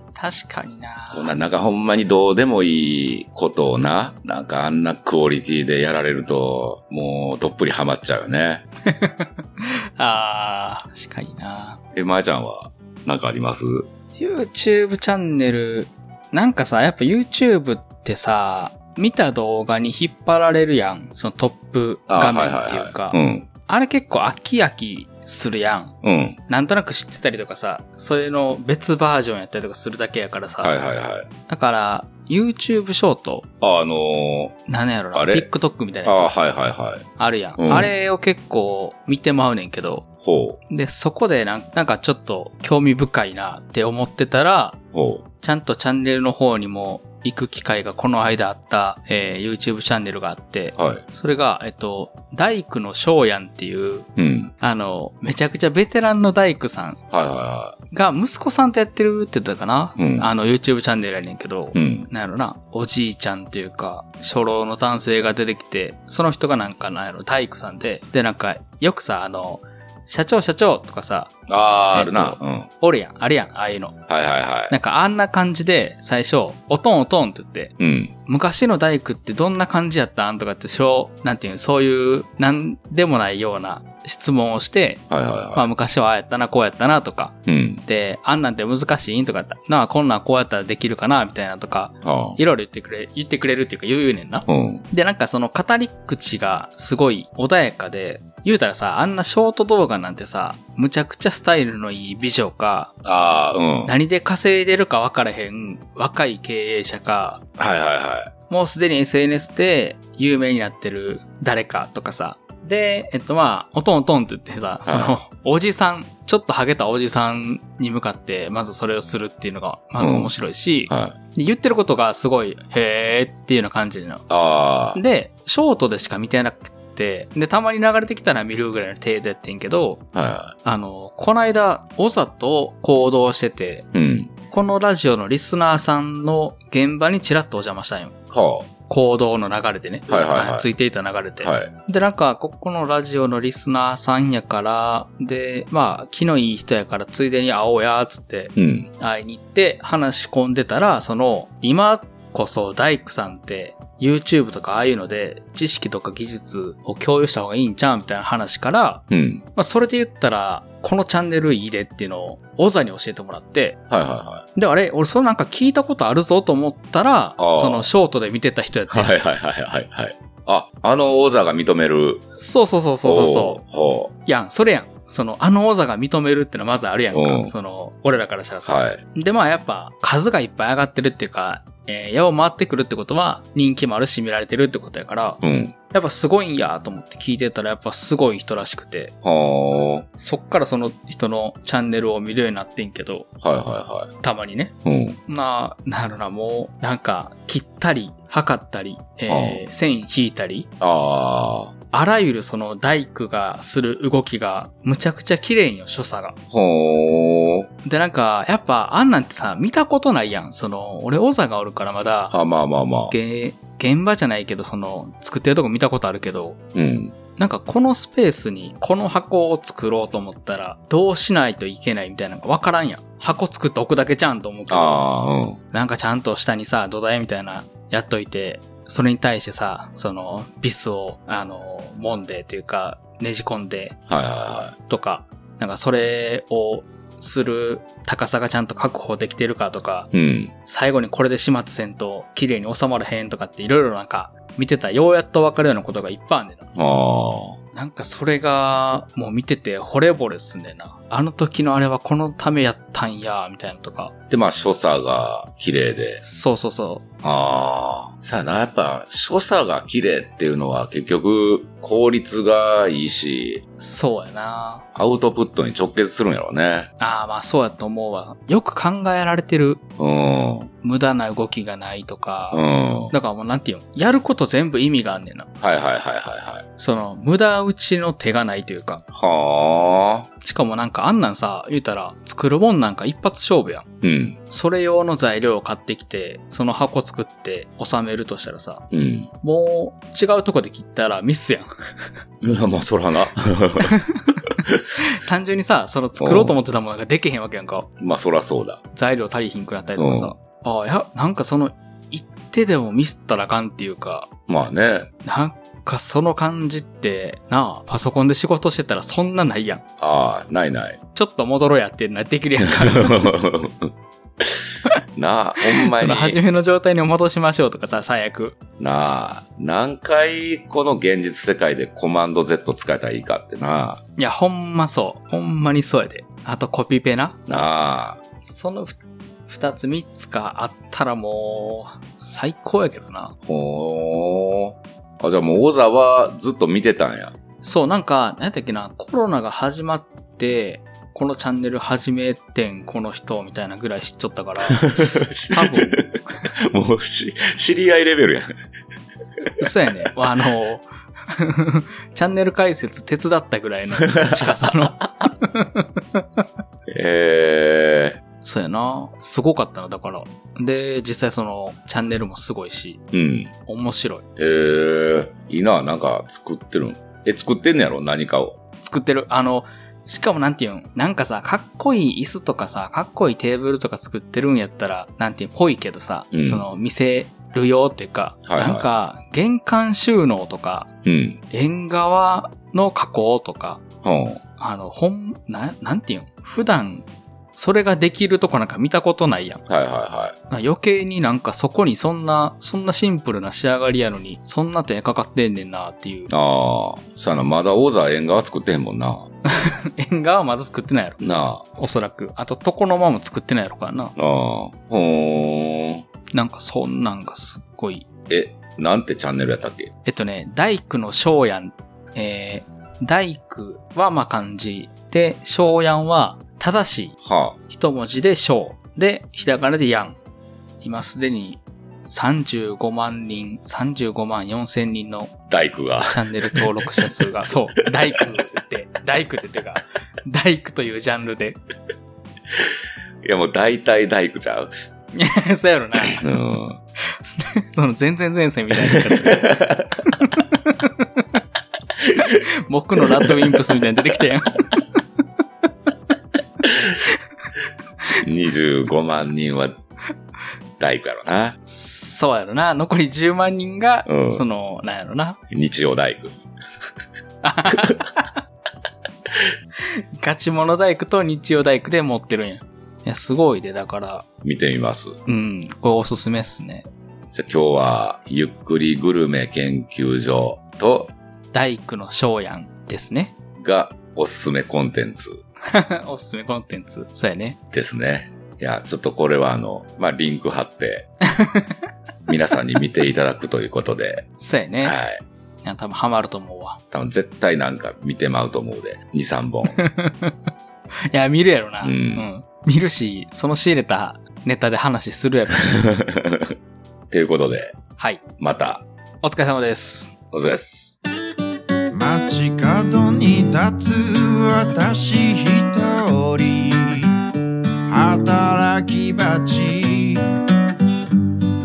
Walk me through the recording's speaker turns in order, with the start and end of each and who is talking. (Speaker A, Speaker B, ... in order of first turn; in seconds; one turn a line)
Speaker A: 0.1-1.4
Speaker B: 1.1-8.6
Speaker A: 8.9-11.8
Speaker B: 11.9-13.9
Speaker A: 14.2-25.9
Speaker B: 22.1-23.5
Speaker B: 26.0-26.4
Speaker A: 26.5-33.5
Speaker B: 30.6-31.3
Speaker B: 33.6-34.6
Speaker A: 34.7-36.4
Speaker B: 35.1-35.5
Speaker B: 36.1-37.0
Speaker A: 37.2-40.0
Speaker B: 37.6-37.9
Speaker B: 40.2-40.6
Speaker A: 40.7-44.8
Speaker B: 44.9-45.2
Speaker A: 45.4-54.1
Speaker B: 50.8-51.0
Speaker B: 54.2-54.5
Speaker A: 54.6-57.0
Speaker B: 57.1-57.8
Speaker A: 57.9-71.3
Speaker B: 60.0-60.3
Speaker B: 61.8-62.1
Speaker B: 71.5-72.7
Speaker A: 71.9-74.0
Speaker B: 74.1-74.8
Speaker A: 74.7-77.7
Speaker B: 77.8-78.1
Speaker A: 78.3-85.0
Speaker B: 85.1-85.7
Speaker A: 85.6-102.9
Speaker B: 87.5-87.8
Speaker B: 92.0-92.4
Speaker B: 94.5-94.8
Speaker B: 103.0-104.0
Speaker A: 103.9-107.4
Speaker B: 107.6-108.3
Speaker A: 108.5-124.3
Speaker B: 114.9-115.2
Speaker B: 120.0-120.3
Speaker B: 120.9-121.2
Speaker B: 124.3-125.0
Speaker A: 124.9-130.0
Speaker B: 130.1-130.5
Speaker A: 130.6-133.9
Speaker B: 133.9-134.3
Speaker A: 134.5-138.1
Speaker B: 138.3-138.7
Speaker A: 138.9-159.0
Speaker B: 140.1-140.7
Speaker B: 141.4-141.7
Speaker B: 148.6-148.9
Speaker B: 159.1-159.4
Speaker A: 159.6-163.8
Speaker B: 163.9-164.4
Speaker A: 164.6-169.2
Speaker B: 167.4-167.9
Speaker B: 168.9-172.2
Speaker A: 172.3-173.6
Speaker B: 173.0-174.1
Speaker A: 174.3-185.4
Speaker B: 177.1-177.5
Speaker B: 178.7-179.0
Speaker B: 185.4-185.8
Speaker A: 185.9-189.1
Speaker B: 189.2-190.1
Speaker A: 190.2-193.3
Speaker B: 193.4-194.1
Speaker A: 194.2-194.8
Speaker B: 194.8-195.2
Speaker A: 195.3-200.7
Speaker B: 199.3-199.6
Speaker B: 200.8-201.7
Speaker A: 201.9-206.4
Speaker B: 206.5-207.7
Speaker A: 207.8-212.4
Speaker B: 212.3-213.1
Speaker A: 213.1-216.6
Speaker B: 216.7-217.2
Speaker A: 217.4-225.1
Speaker B: 224.7-225.6
Speaker A: 225.7-234.0
Speaker B: 234.1-234.7
Speaker A: 234.8-240.1
Speaker B: 240.1-240.5
Speaker A: 240.7-246.7
Speaker B: 246.8-247.6
Speaker A: 247.7-254.1
Speaker B: 254.3-256.2
Speaker A: 256.2-257.0
Speaker B: 257.2-263.6
Speaker A: 263.8-264.8
Speaker B: 264.9-266.9
Speaker A: 267.0-269.8
Speaker B: 270.0-270.7
Speaker A: 270.8-275.5
Speaker B: 272.5-273.1
Speaker B: 275.6-276.6
Speaker A: 276.8-279.0
Speaker B: 279.1-280.3
Speaker A: 280.4-283.9
Speaker B: 284.0-284.4
Speaker A: 284.5-288.8
Speaker B: 288.9-289.3
Speaker A: 289.4-291.7
Speaker B: 292.4-293.9
Speaker A: 293.8-297.9
Speaker B: 296.2-296.6
Speaker B: 298.0-298.8
Speaker A: 298.9-304.3
Speaker B: 300.0-300.3
Speaker B: 304.5-305.1
Speaker A: 305.2-309.8
Speaker B: 310.0-311.0
Speaker A: 311.1-313.3
Speaker B: 312.7-313.9
Speaker B: 315.2-316.4
Speaker A: 315.6-318.6
Speaker B: 318.8-324.0
Speaker A: 324.2-327.4
Speaker B: 327.5-328.2
Speaker A: 328.5-333.3
Speaker B: 333.4-337.3
Speaker A: 337.6-344.9
Speaker B: 344.6-346.1
Speaker A: 345.5-346.0
Speaker B: 346.7-348.5
Speaker A: 349.6-356.4
Speaker B: 354.0-354.7
Speaker B: 356.9-358.2
Speaker A: 358.4-363.0
Speaker B: 363.1-363.5
Speaker A: 363.6-364.2
Speaker B: 364.4-368.6
Speaker A: 368.8-380.9
Speaker B: 376.3-376.7
Speaker B: 378.5-378.9
Speaker B: 381.1-381.4
Speaker A: 381.5-383.8
Speaker B: 384.0-384.4
Speaker A: 384.6-389.6
Speaker B: 389.7-390.3
Speaker A: 390.5-396.3
Speaker B: 396.3-399.2
Speaker A: 399.5-404.1
Speaker B: 401.2-401.6
Speaker B: 404.2-406.0
Speaker A: 406.3-408.1
Speaker B: 408.3-409.9
Speaker A: 410.1-417.1
Speaker B: 417.2-417.6
Speaker A: 417.7-420.2
Speaker A: 420.8-425.3
Speaker B: 425.5-427.3
Speaker A: 426.1-431.6
Speaker B: 432.5-434.7
Speaker A: 435.1-436.2
Speaker B: 435.9-436.8
Speaker A: 437.1-441.4
Speaker B: 438.7-440.0
Speaker A: 442.2-445.0
Speaker B: 443.0-443.6
Speaker A: 446.6-447.1
Speaker B: 448.2-449.7
Speaker B: 450.8-451.6
Speaker A: 451.6-455.4
Speaker B: 454.1-454.4
Speaker B: 455.5-456.4
Speaker A: 457.4-458.3
Speaker B: 457.7-458.0
Speaker A: 460.2-464.3
Speaker B: 464.4-465.1
Speaker A: 465.3-466.9
Speaker B: 467.3-471.1
Speaker A: 471.5-473.3
Speaker B: 473.6-475.4
Speaker A: 475.7-477.6
Speaker B: 477.7-481.1
Speaker A: 481.4-481.8
Speaker B: 482.3-484.2
Speaker A: 484.4-485.0
Speaker B: 484.8-485.2
Speaker A: 485.6-486.8
Speaker B: 486.9-489.8
Speaker A: 489.7-490.4
Speaker A: 491.1-495.9
Speaker B: 491.8-492.3
Speaker B: 495.7-496.5
Speaker B: 497.1-497.7
Speaker B: 498.4-498.8
Speaker A: 499.2-500.1
Speaker B: 500.3-501.0
Speaker C: 501.9-507.1
Speaker C: 507.9-510.2